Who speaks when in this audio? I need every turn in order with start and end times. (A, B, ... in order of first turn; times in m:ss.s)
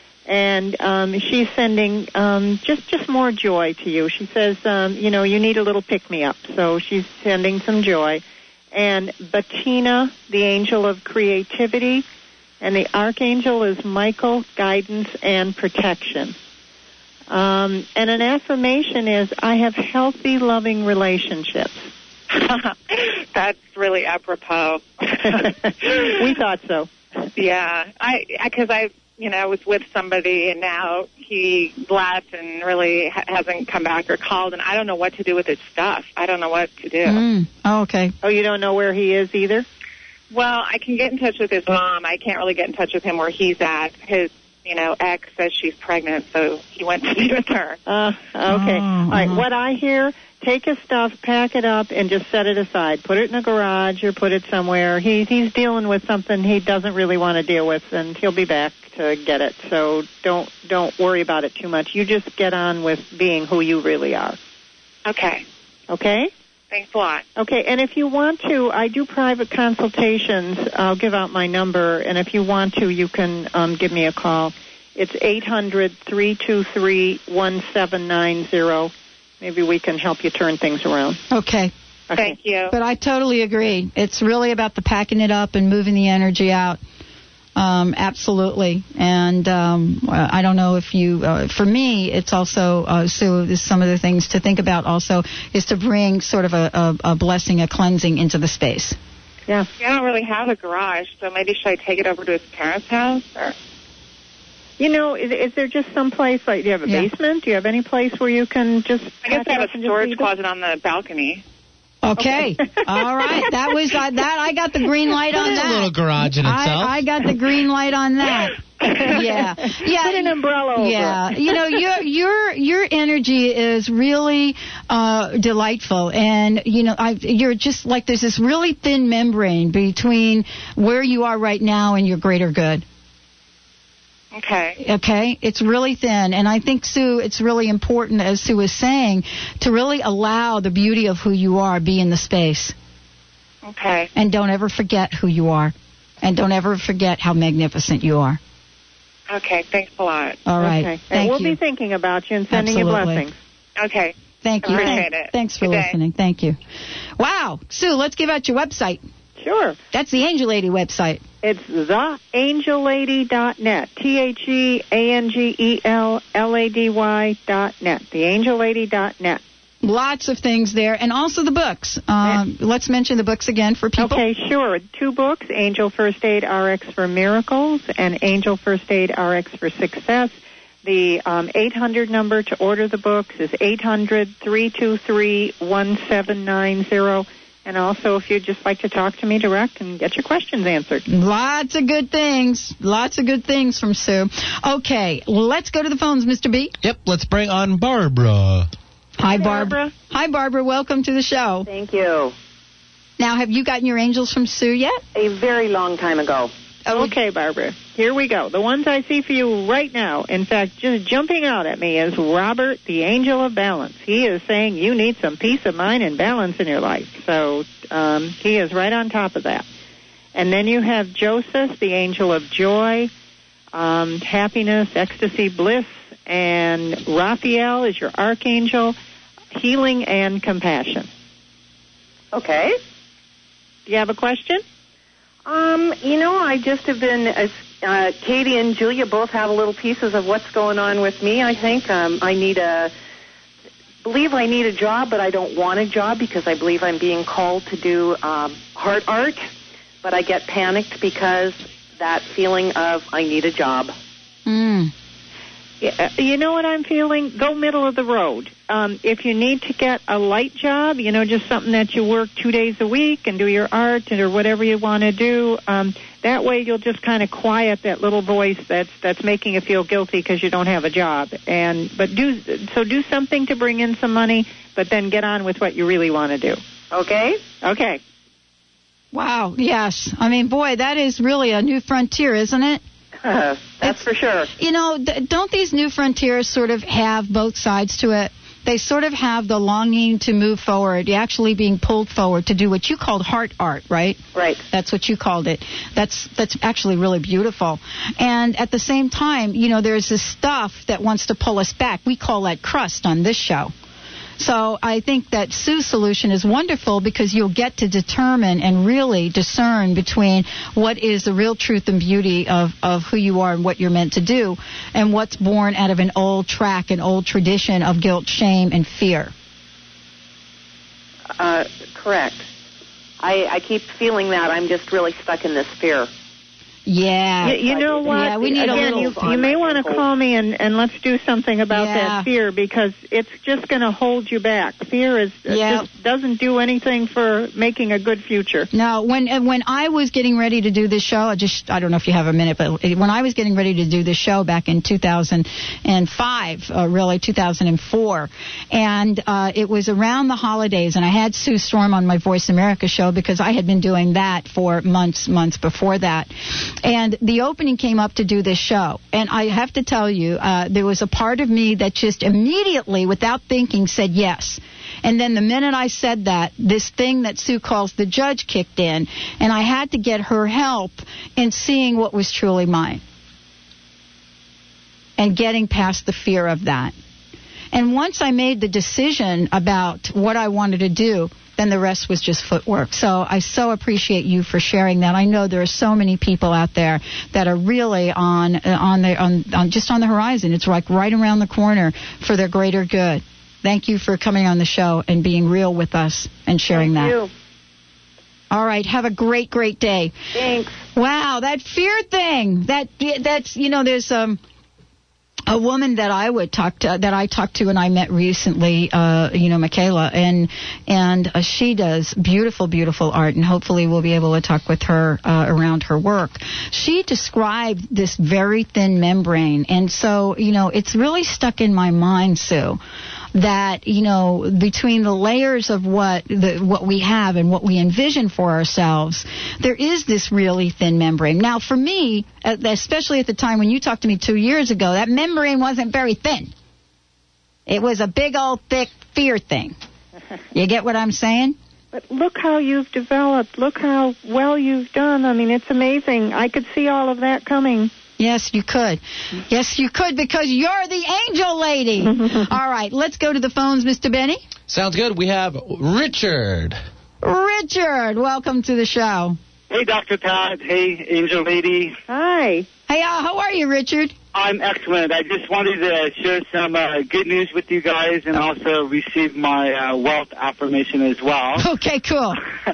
0:00.3-0:12.0 A
0:12.6-0:16.3 A
0:17.3-0:21.8 A
0:22.3-0:26.1 B
0:25.4-0:26.9 A
0:27.4-0:37.2 B
0:37.0-0:38.1 C
0:38.2-0:39.6 A
0:40.3-0:47.8 B
0:47.8-1:04.4 A
0:48.5-0:49.4 C
1:05.0-1:05.4 B
1:05.9-1:06.3 A
1:06.7-1:07.2 B
1:07.4-1:21.2 A
1:21.3-1:21.7 C
1:22.1-1:22.4 A
1:22.1-1:22.7 B
1:22.7-1:26.8 C
1:27.6-1:39.0 C
1:39.8-1:43.5 B
1:44.8-1:50.3 A
1:49.2-1:51.4 B
1:52.0-2:12.8 C
1:52.2-1:53.5 A
1:55.4-1:57.0 D
1:58.8-2:01.6 A
2:14.3-2:14.8 B
2:14.8-2:22.7 C
2:23.6-2:24.1 B
2:24.1-2:28.4 C
2:29.3-2:30.4 B
2:30.4-2:31.6 C
2:30.6-2:33.4 A
2:32.5-2:33.2 C
2:33.8-2:35.9 B
2:34.4-2:36.6 C
2:34.6-2:35.0 A
2:37.2-2:39.0 C
2:39.4-2:39.8 A
2:39.9-2:41.2 C
2:41.4-2:49.4 A
2:49.8-2:54.2 C
2:54.0-3:11.0 A
3:11.1-3:16.7 C
3:16.8-3:18.7 D
3:19.2-3:21.7 C
3:19.3-3:19.9 A
3:21.6-3:22.3 E
3:23.2-3:25.0 C
3:25.1-3:26.5 E
3:26.8-3:27.1 C
3:26.9-3:39.6 A
3:40.3-3:43.1 A
3:43.7-3:49.0 A
3:49.5-3:51.1 A
3:52.3-3:52.8 E
3:53.8-3:54.6 A
3:55.4-4:02.9 E
4:04.0-4:09.4 E
4:10.0-4:13.9 E
4:14.4-4:14.9 C
4:15.8-4:36.6 A
4:36.9-4:37.4 E
4:37.6-4:38.0 A
4:39.1-4:42.8 C
4:43.2-4:44.5 E
4:44.6-4:54.2 C
4:54.3-4:54.6 E
4:54.7-5:03.7 C
5:04.4-5:19.3 C
5:21.4-5:22.4 E
5:23.2-5:26.1 E
5:26.8-5:29.1 C
5:27.4-5:30.0 E
5:27.4-5:38.7 A
5:31.7-5:32.3 C
5:35.5-5:35.8 C
5:38.7-6:13.0 C
6:15.2-6:16.9 C
6:17.7-6:37.2 C
6:36.7-6:37.3 E
6:38.5-6:40.1 C
6:40.3-6:40.8 E
6:40.9-6:44.4 C
6:45.5-7:02.8 C
7:03.3-7:16.5 C
7:17.7-7:19.8 C
7:20.5-7:21.6 C
7:21.9-7:27.9 A
7:28.2-7:34.4 C
7:34.7-7:36.8 D
7:37.2-7:39.4 C
7:39.7-7:42.0 F
7:42.1-7:42.6 A
7:42.9-7:44.1 C
7:44.3-7:51.6 F
7:51.6-7:52.4 C